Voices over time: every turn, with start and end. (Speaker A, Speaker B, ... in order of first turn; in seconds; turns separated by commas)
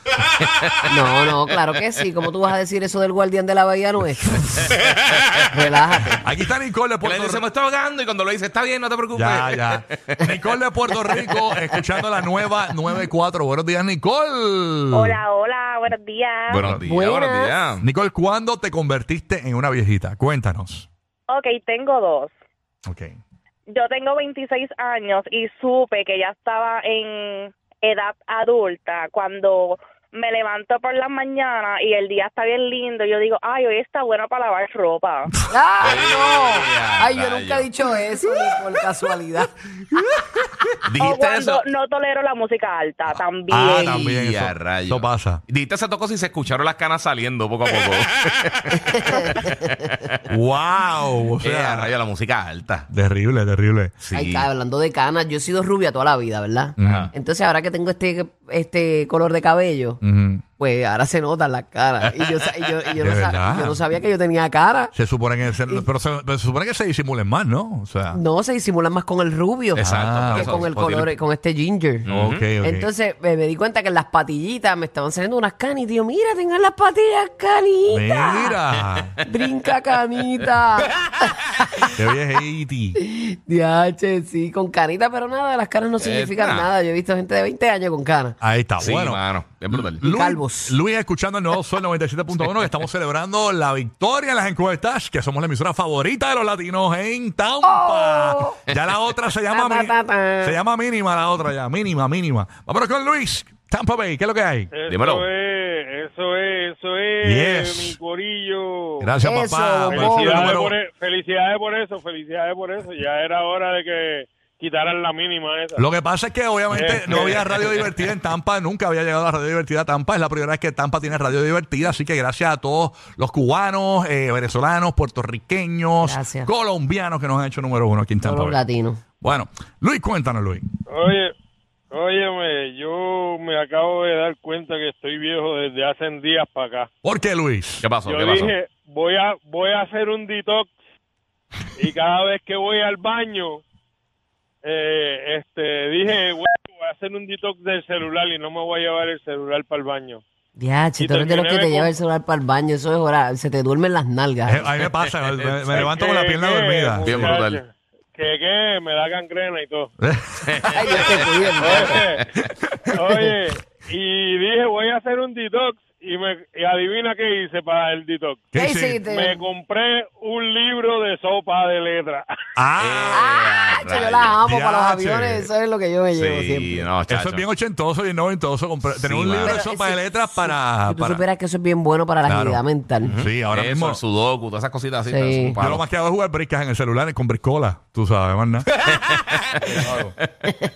Speaker A: 0.4-0.8, Speaker B: 0.9-4.8, Speaker B: 5.5-6.2, Speaker C: 6.2-7.5, Speaker A: 7.0-10.3, Speaker C: 9.2-15.2, Speaker D: 14.9-16.6, Speaker A: 16.5-17.9, Speaker B: 16.8-17.6, Speaker C: 17.8-20.9, Speaker D: 21.3-22.3, Speaker C: 22.9-23.2, Speaker D: 23.7-35.4, Speaker B: 35.5-39.5, Speaker A: 35.8-37.7, Speaker A: 40.9-41.6, Speaker D: 41.0-44.0, Speaker C: 43.5-45.4, Speaker A: 43.8-50.2, Speaker B: 48.9-49.5, Speaker C: 50.3-51.9, Speaker A: 51.4-52.9, Speaker C: 52.9-54.0, Speaker A: 54.0-54.5, Speaker B: 54.1-60.0, Speaker C: 56.8-57.1, Speaker A: 56.8-57.1, Speaker C: 60.0-60.4, Speaker B: 60.6-64.9, Speaker A: 62.1-62.5, Speaker C: 63.0-63.8, Speaker C: 64.9-68.2, Speaker B: 68.1-78.6, Speaker A: 69.8-71.1, Speaker C: 69.8-71.0, Speaker A: 72.0-72.5, Speaker C: 72.1-72.9, Speaker C: 77.9-79.2, Speaker B: 79.2-82.0, Speaker C: 82.0-83.0, Speaker B: 83.0-88.4, Speaker A: 86.0-86.7, Speaker C: 88.4-104.7, Speaker A: 88.8-90.0, Speaker B: 90.0-90.8, Speaker A: 92.4-92.8, Speaker B: 97.7-98.6, Speaker B: 99.5-100.6, Speaker E: 104.7-109.1, Speaker A: 104.9-105.3, Speaker C: 107.2-108.0, Speaker C: 109.0-110.8, Speaker B: 109.2-110.5, Speaker E: 109.9-115.8, Speaker C: 115.8-128.6, Speaker E: 116.7-117.8, Speaker B: 126.0-126.5, Speaker B: 128.2-129.0, Speaker C: 129.2-130.7, Speaker E: 130.9-131.3, Speaker E: 131.9-136.9, Speaker C: 137.0-137.9, Speaker A: 137.8-138.6, Speaker E: 138.1-140.7, Speaker E: 141.8-143.6, Speaker E: 144.6-150.2, Speaker B: 150.6-154.6, Speaker E: 151.0-151.9, Speaker C: 154.4-157.4, Speaker A: 154.6-155.9, Speaker E: 155.7-159.9, Speaker A: 157.1-157.6, Speaker C: 160.0-160.7, Speaker A: 160.5-161.4, Speaker B: 160.7-162.1, Speaker E: 161.6-162.2, Speaker C: 162.4-162.7, Speaker E: 162.9-172.3, Speaker C: 168.5-169.0, Speaker B: 168.5-169.5, Speaker C: 172.6-173.3, Speaker A: 172.8-174.4, Speaker B: 173.1-176.9, Speaker C: 174.4-175.5, Speaker A: 176.1-177.5, Speaker C: 177.1-181.2, Speaker A: 179.0-179.7, Speaker B: 179.4-183.1, Speaker C: 182.2-184.0, Speaker A: 183.1-185.8, Speaker B: 185.1-185.6, Speaker C: 185.6-188.7, Speaker A: 188.9-189.8, Speaker C: 189.6-190.2